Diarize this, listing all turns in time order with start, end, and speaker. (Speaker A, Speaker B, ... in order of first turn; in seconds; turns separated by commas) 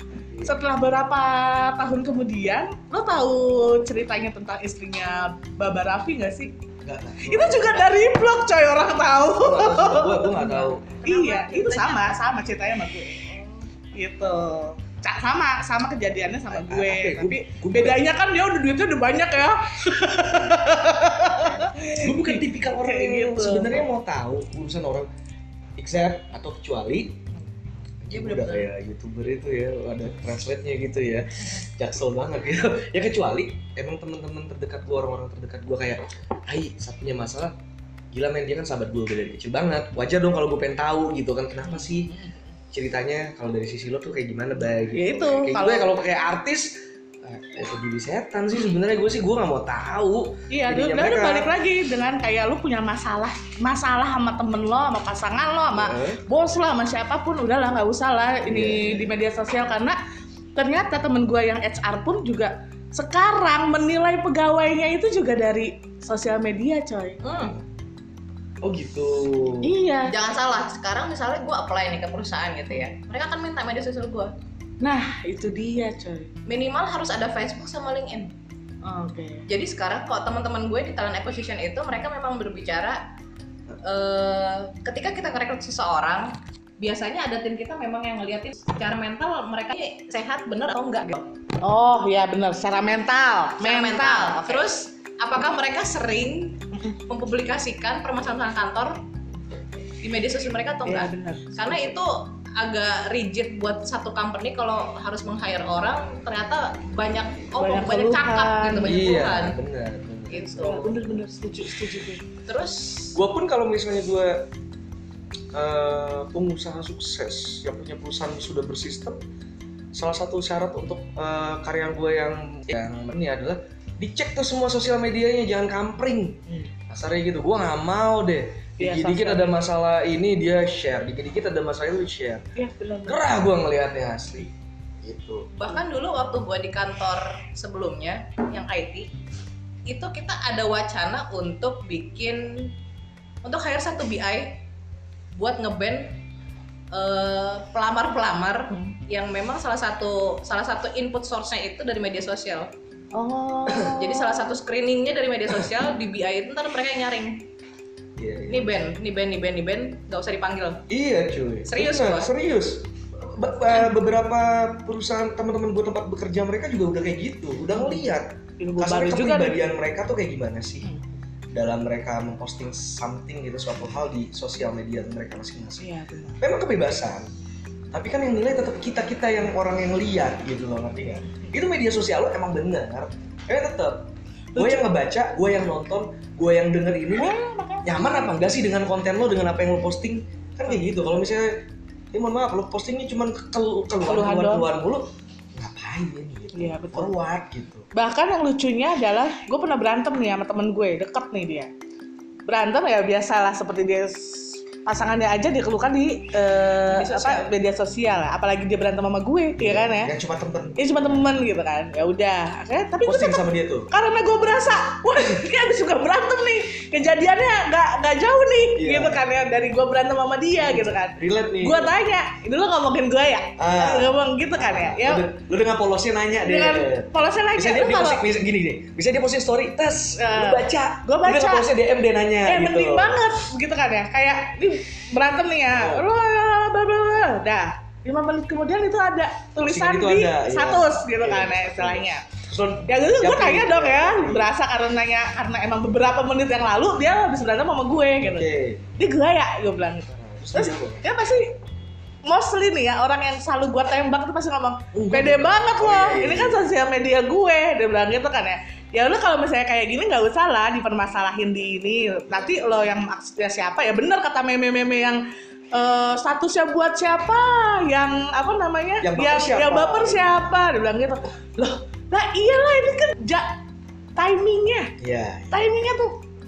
Speaker A: 0.2-0.5, Speaker B: 0.4-6.5, Speaker A: 6.8-7.9, Speaker B: 7.2-23.8, Speaker A: 9.4-11.0, Speaker C: 11.0-12.2, Speaker A: 16.5-18.0, Speaker A: 21.9-25.1, Speaker A: 25.8-27.2, Speaker A: 28.0-37.5, Speaker C: 28.1-28.7, Speaker A: 38.1-42.1, Speaker B: 41.6-42.3, Speaker A: 42.7-51.5, Speaker B: 44.9-45.9, Speaker B: 50.5-60.0, Speaker A: 55.7-56.2, Speaker A: 58.5-59.1, Speaker B: 60.5-67.2, Speaker C: 67.2-67.5, Speaker A: 67.3-67.6, Speaker A: 68.6-69.7, Speaker B: 69.6-70.1, Speaker C: 70.0-74.3, Speaker B: 74.8-76.3, Speaker C: 76.5-78.3, Speaker B: 78.8-79.5, Speaker C: 79.5-83.0, Speaker C: 83.8-91.2, Speaker B: 91.6-94.7, Speaker C: 93.6-99.0, Speaker C: 100.0-109.6, Speaker B: 100.8-101.9, Speaker B: 107.6-109.1, Speaker A: 108.8-111.0, Speaker C: 110.3-110.9, Speaker B: 110.6-112.2, Speaker C: 112.4-113.2, Speaker A: 113.1-114.5, Speaker A: 115.5-119.2, Speaker A: 119.9-132.4, Speaker B: 128.8-129.5, Speaker B: 132.6-133.2, Speaker A: 133.1-134.5, Speaker A: 135.0-135.5, Speaker C: 135.6-139.1, Speaker C: 139.9-142.7, Speaker C: 143.4-144.6, Speaker C: 145.3-146.2, Speaker C: 146.9-152.7, Speaker B: 153.1-154.5, Speaker A: 153.7-153.9, Speaker C: 154.0-157.4, Speaker A: 158.2-158.7, Speaker C: 158.5-160.8, Speaker A: 160.9-170.9, Speaker C: 161.7-162.3, Speaker B: 168.6-169.7, Speaker A: 171.5-175.8, Speaker B: 175.8-176.4, Speaker A: 176.4-177.3, Speaker A: 177.9-191.6, Speaker B: 184.5-184.9, Speaker B: 187.2-188.3, Speaker A: 192.1-197.9, Speaker B: 194.1-194.7, Speaker B: 196.5-197.1, Speaker B: 197.9-201.7, Speaker B: 202.5-210.1, Speaker C: 207.1-207.4, Speaker A: 209.6-211.3, Speaker B: 210.8-225.3, Speaker A: 213.0-213.9, Speaker A: 218.8-219.2, Speaker A: 220.6-221.9, Speaker A: 223.6-233.2, Speaker B: 226.4-228.3, Speaker B: 230.2-231.7, Speaker B: 232.4-242.2, Speaker A: 235.7-236.1, Speaker A: 239.6-244.5, Speaker B: 242.9-251.5, Speaker A: 248.2-248.8, Speaker A: 250.2-251.0, Speaker B: 252.2-265.2, Speaker A: 254.9-256.6, Speaker A: 262.3-262.7, Speaker B: 265.7-273.6, Speaker A: 269.0-270.5, Speaker B: 274.1-274.9, Speaker A: 275.0-275.6, Speaker B: 275.5-276.1